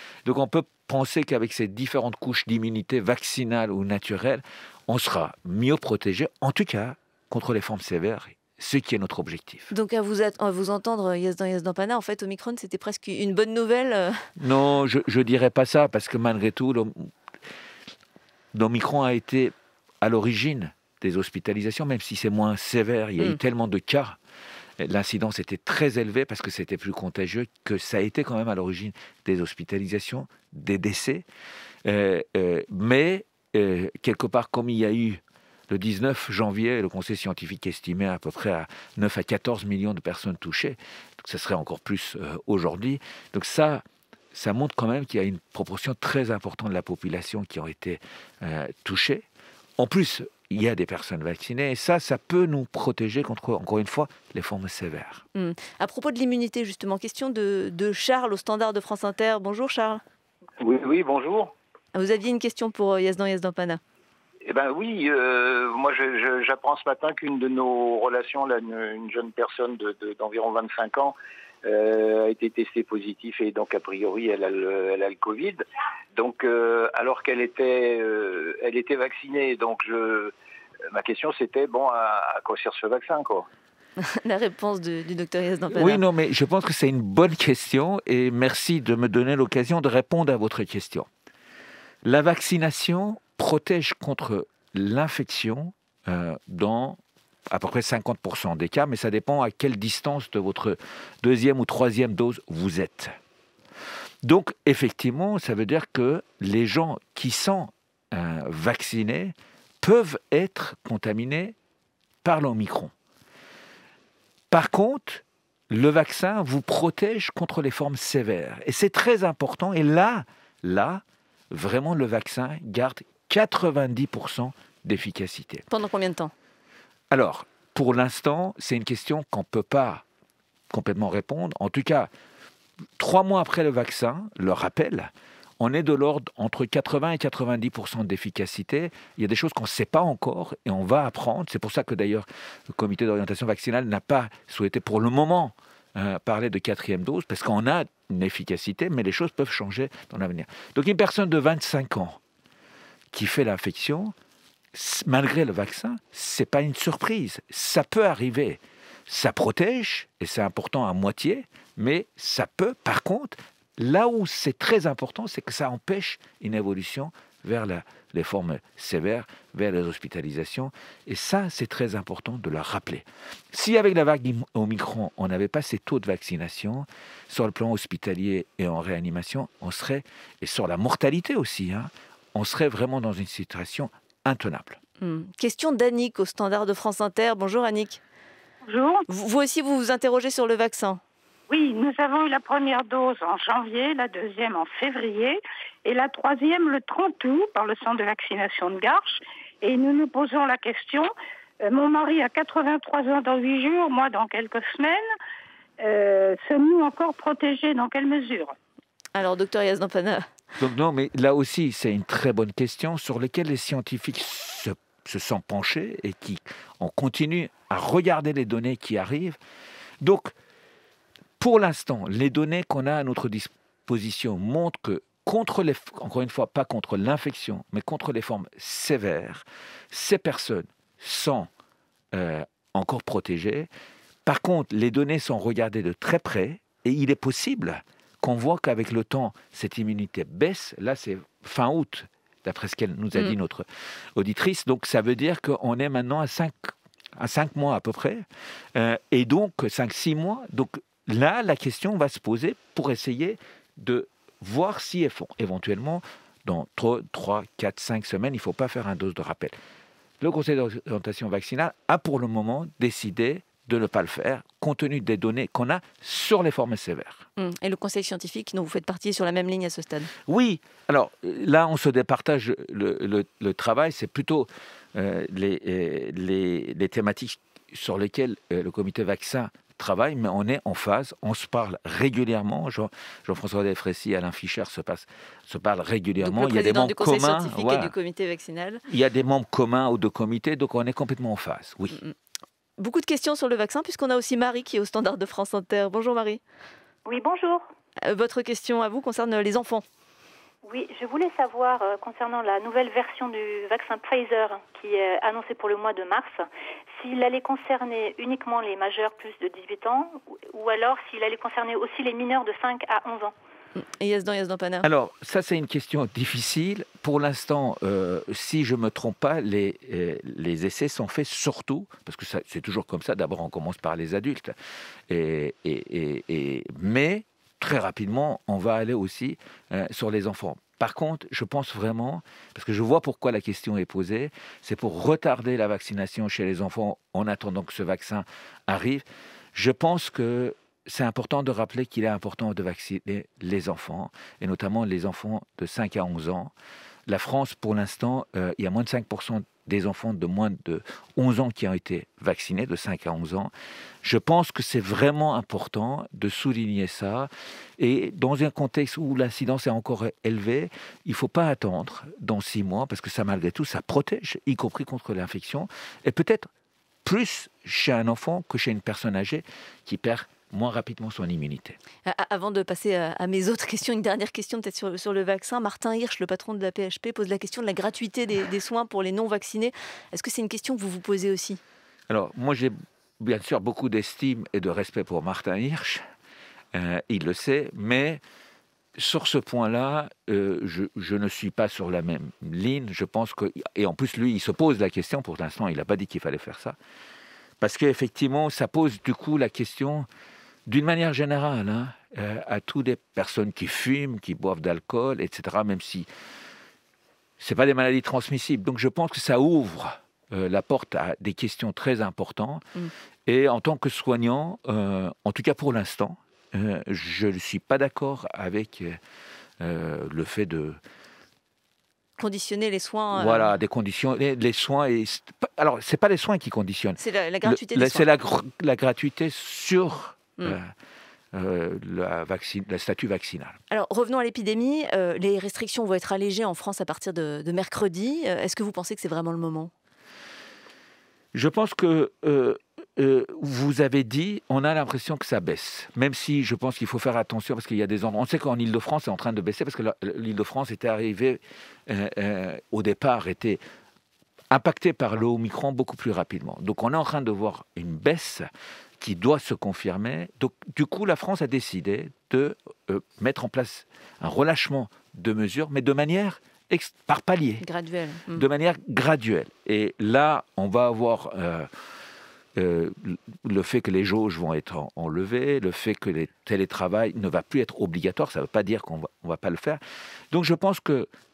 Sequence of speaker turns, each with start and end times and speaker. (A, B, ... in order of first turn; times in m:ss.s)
0:00.2-0:09.7 A
0:09.7-0:14.3 B
0:14.4-0:17.1 A
0:18.5-0:24.2 A
0:24.8-0:31.2 A
0:31.8-0:49.2 A
0:49.8-0:55.2 A
0:55.3-1:00.0 B
1:00.6-1:01.5 C
1:01.9-1:03.8 B
1:04.4-1:15.6 C
1:16.2-1:20.3 C
1:20.9-1:23.5 C
1:24.0-1:26.0 B
1:25.7-1:31.1 A
1:32.0-1:37.0 A
1:37.5-1:43.1 A
1:44.2-1:51.5 A
1:52.2-1:52.9 A
1:54.5-2:05.6 A
2:05.7-2:06.3 B
2:07.1-2:10.0 A
2:10.7-2:12.1 A
2:13.0-2:32.2 A
2:33.1-2:34.1 A
2:34.7-3:04.8 A
3:05.0-3:08.0 B
3:08.7-3:09.0 D
3:09.1-3:11.0 B
3:11.5-3:21.1 D
3:21.6-3:25.0 D
3:25.8-3:28.5 D
3:29.1-3:30.2 B
3:30.6-3:39.4 A
3:40.0-3:40.3 A
3:41.4-3:51.5 A
3:52.1-3:53.7 A
3:54.2-4:19.5 A
4:20.2-4:27.2 A
4:27.4-4:30.1 B
4:30.3-4:47.9 A
4:46.2-4:48.8 B
4:48.9-4:52.0 A
4:52.8-4:56.4 B
4:57.0-4:57.6 E
4:58.0-4:59.8 B
5:00.6-5:13.3 E
5:13.8-5:14.9 B
5:14.8-5:24.5 A
5:25.1-5:46.5 A
5:47.1-5:53.5 A
5:54.0-6:06.5 A
6:07.0-6:11.8 A
6:12.0-6:21.6 B
6:22.1-6:26.0 A
6:26.7-6:28.2 A
6:29.0-6:36.8 A
6:37.6-6:40.1 A
6:40.7-6:46.1 A
6:47.4-6:52.6 A
6:53.3-6:59.0 A
6:59.6-7:00.8 A
7:02.2-7:03.6 B
7:03.1-7:10.7 A
7:07.0-7:08.1 B
7:11.3-7:13.6 A
7:13.7-7:19.7 B
7:21.3-7:33.6 A
7:34.5-7:38.5 A
7:39.0-7:47.6 A
7:47.6-7:48.4 B
7:48.3-7:51.7 A
7:52.6-7:59.8 A
8:00.3-8:01.1 A